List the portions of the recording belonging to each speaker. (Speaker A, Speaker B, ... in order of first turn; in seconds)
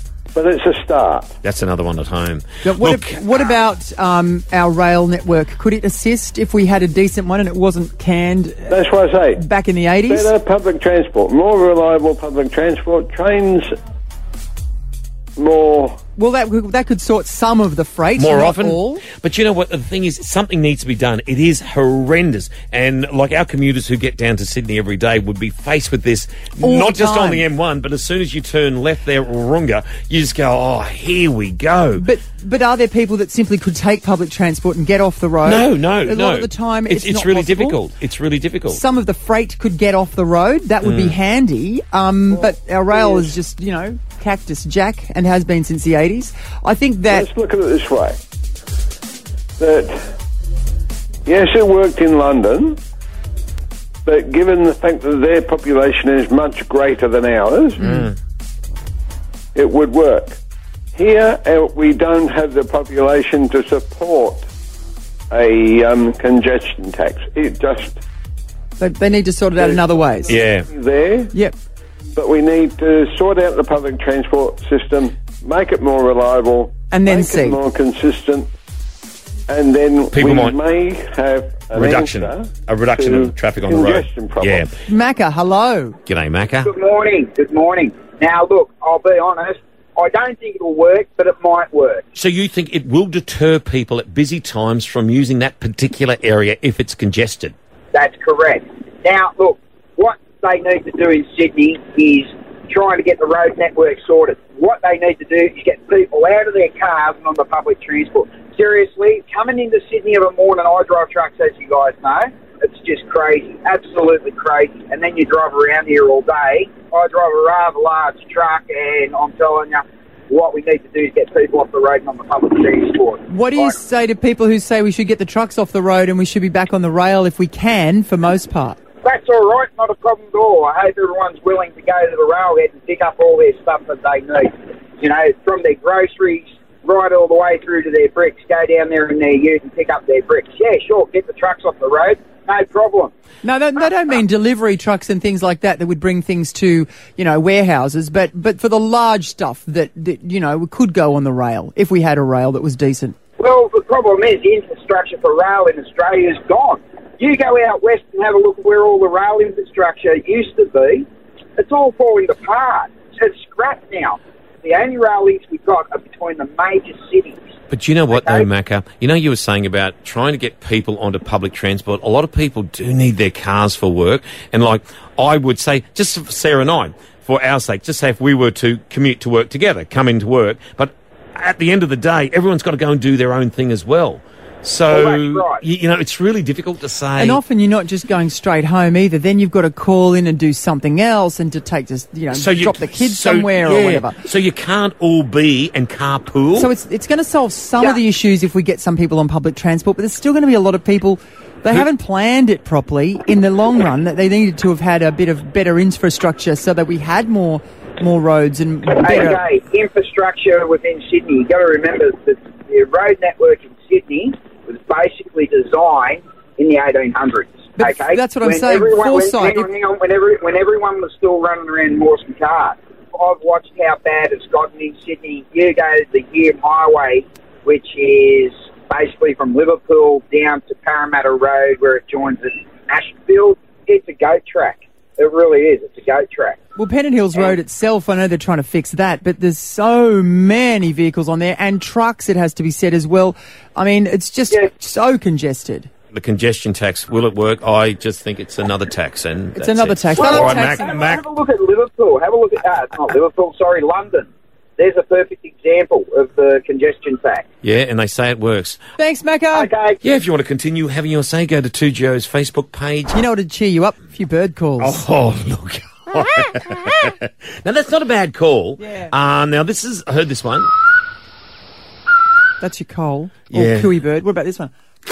Speaker A: 0.3-1.3, 8.7-9.4, 10.1-13.7, 15.3-16.0, 42.3-43.3, 47.1-48.2, 49.6-50.1, 51.2-52.8, 54.0-57.9, 59.5-60.4, 60.9-64.5, 65.3-68.0, 69.6-71.3, 72.2-78.5, 79.5-84.7
Speaker B: 1.4-3.2, 18.2-32.0, 35.4-38.8, 40.8-41.2, 57.9-58.1, 70.3-70.7, 80.1-80.6, 81.7-84.7, 86.1-86.7, 92.1-97.5, 167.7-187.4, 192.3-196.7, 246.1-251.2, 257.6-258.8, 260.0-263.2, 264.8-270.7, 273.5-274.0
Speaker C: 2.6-8.8, 9.3-10.3, 16.2-19.0, 26.6-27.4, 32.0-37.8, 38.7-47.3, 68.8-70.3, 76.9-77.6, 84.9-86.0, 123.3-128.8, 143.4-153.2, 187.2-194.2, 196.5-209.4, 217.8-219.7, 236.8-245.9, 249.5-250.9, 259.0-259.7, 263.1-265.1, 268.8-269.1, 272.6-274.7
Speaker D: 86.6-92.0, 97.9-123.8, 129.0-143.1, 153.4-167.5, 168.1-168.5, 184.9-185.6, 209.0-236.6, 250.2-257.4, 259.5-260.0